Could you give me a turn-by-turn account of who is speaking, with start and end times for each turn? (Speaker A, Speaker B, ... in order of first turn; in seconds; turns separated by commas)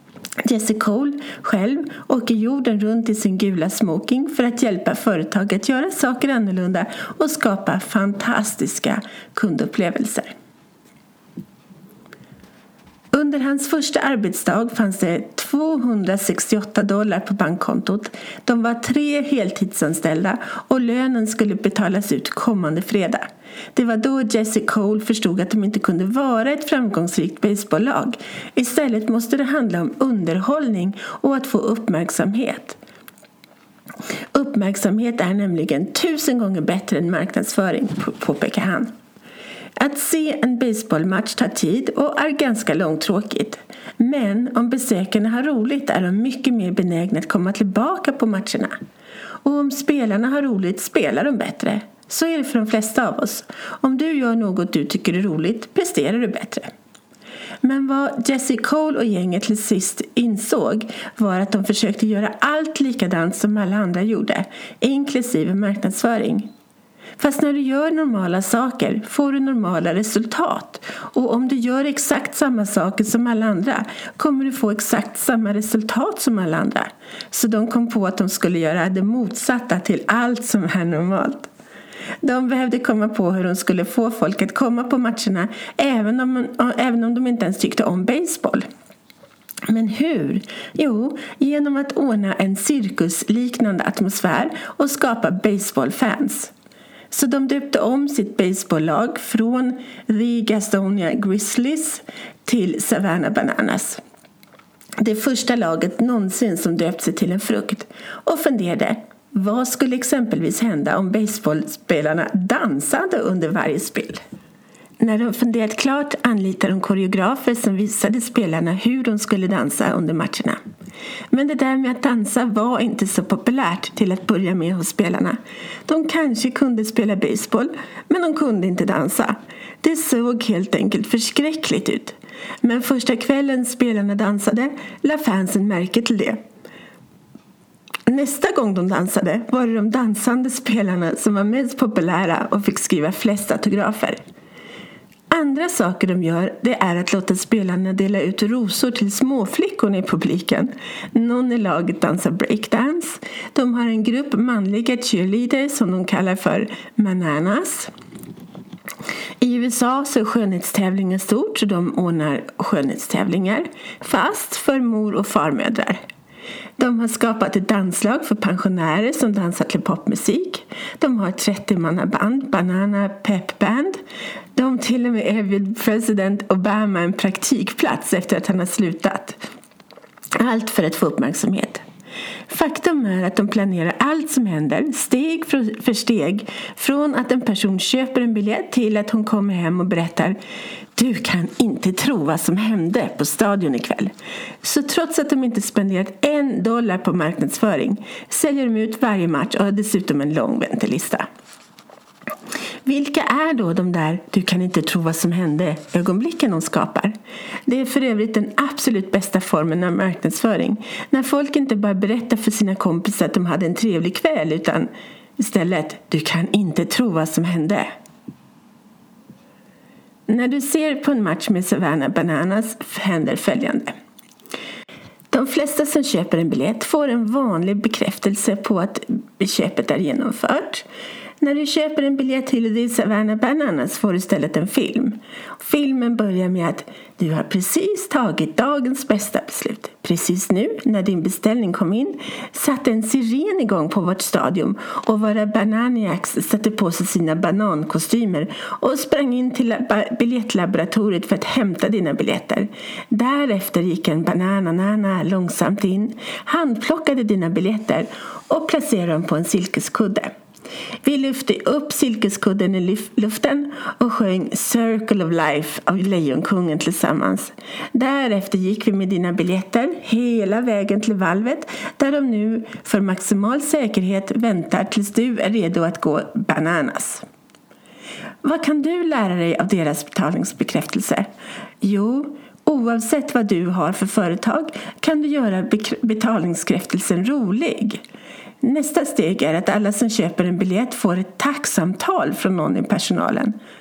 Speaker A: 0.4-10.3, Speaker A: 13.1-32.8, Speaker A: 34.3-38.9, Speaker A: 39.8-48.7, Speaker A: 49.4-56.7, Speaker A: 57.6-66.5, Speaker A: 67.2-81.5, Speaker A: 82.2-88.6, Speaker A: 89.7-96.5, Speaker A: 97.1-104.0, Speaker A: 105.0-114.2, Speaker A: 115.0-120.6, Speaker A: 121.3-136.4, Speaker A: 138.1-144.2, Speaker A: 145.3-157.9, Speaker A: 159.4-166.0, Speaker A: 166.8-174.0, Speaker A: 174.5-179.4, Speaker A: 180.4-181.8, Speaker A: 182.5-190.4, Speaker A: 190.9-201.2, Speaker A: 202.8-207.1, Speaker A: 207.7-217.9, Speaker A: 220.3-223.9, Speaker A: 225.3-230.8, Speaker A: 231.4-260.3, Speaker A: 261.0-277.2, Speaker A: 278.4-281.3, Speaker A: 281.8-288.0, Speaker A: 288.6-293.5